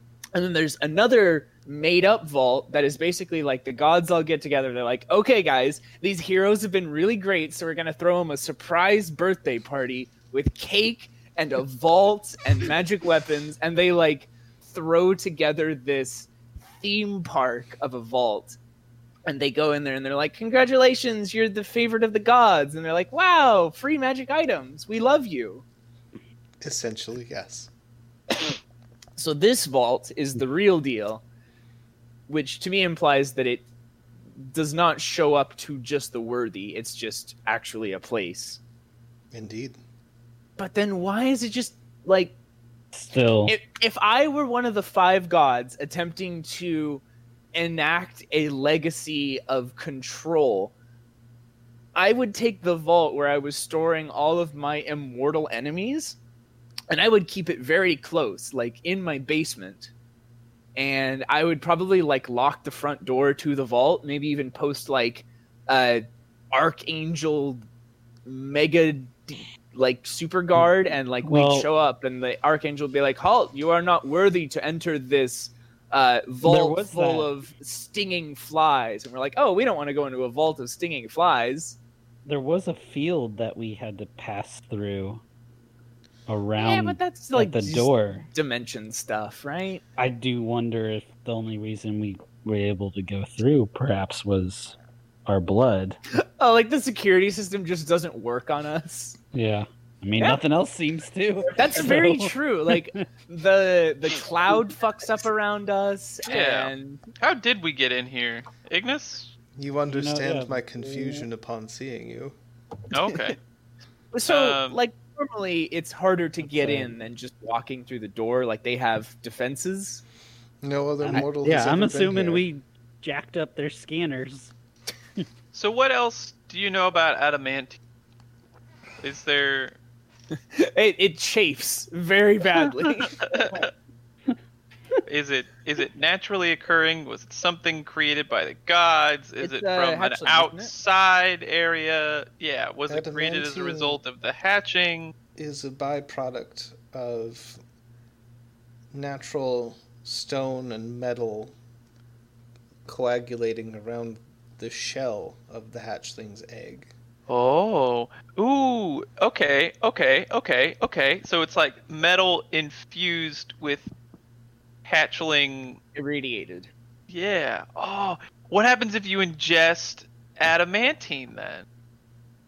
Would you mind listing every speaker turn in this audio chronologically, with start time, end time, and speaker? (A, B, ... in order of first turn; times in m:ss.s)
0:00.3-0:16.3 A
0:16.8-0:18.6 A
0:19.3-0:25.6 A
0:26.6-0:27.7 B
0:29.2-0:31.2 A
0:32.3-0:33.6 A
0:34.4-0:38.6 A
0:39.3-0:39.8 B
0:40.6-0:42.4 A
0:42.9-0:43.6 C
0:43.5-0:47.0 A
0:47.6-0:50.7 A
0:52.0-0:56.2 A
0:56.9-0:59.9 A
1:00.8-1:07.6 A
1:08.3-1:21.8 A
1:11.2-1:11.7 C
1:16.4-1:17.3 C
1:22.3-1:25.2 C
1:26.3-1:28.2 C
1:26.6-1:29.8 A
1:30.0-1:34.8 C
1:35.3-1:36.0 C
1:36.4-1:39.2 A
1:39.3-1:43.0 C
1:41.6-1:47.0 A
1:46.2-1:49.3 D
1:49.6-1:52.4 B
1:49.9-1:50.6 C
1:52.9-1:53.4 D
1:54.1-2:00.0 A
1:54.3-1:54.8 D
1:56.4-1:57.0 C
2:00.6-2:02.4 B
2:01.0-2:04.5 C
2:05.5-2:07.8 D
2:09.0-2:09.8 D
2:10.5-2:13.2 A
2:13.2-2:13.7 D
2:15.1-2:25.1 D
2:19.4-2:20.7 A
2:22.9-2:24.0 B
2:25.4-2:27.6 B
2:28.9-2:31.6 B
2:32.9-2:36.9 B
2:37.3-2:43.9 D
2:44.8-2:45.8 D
2:46.0-2:46.7 A
2:47.1-2:51.6 D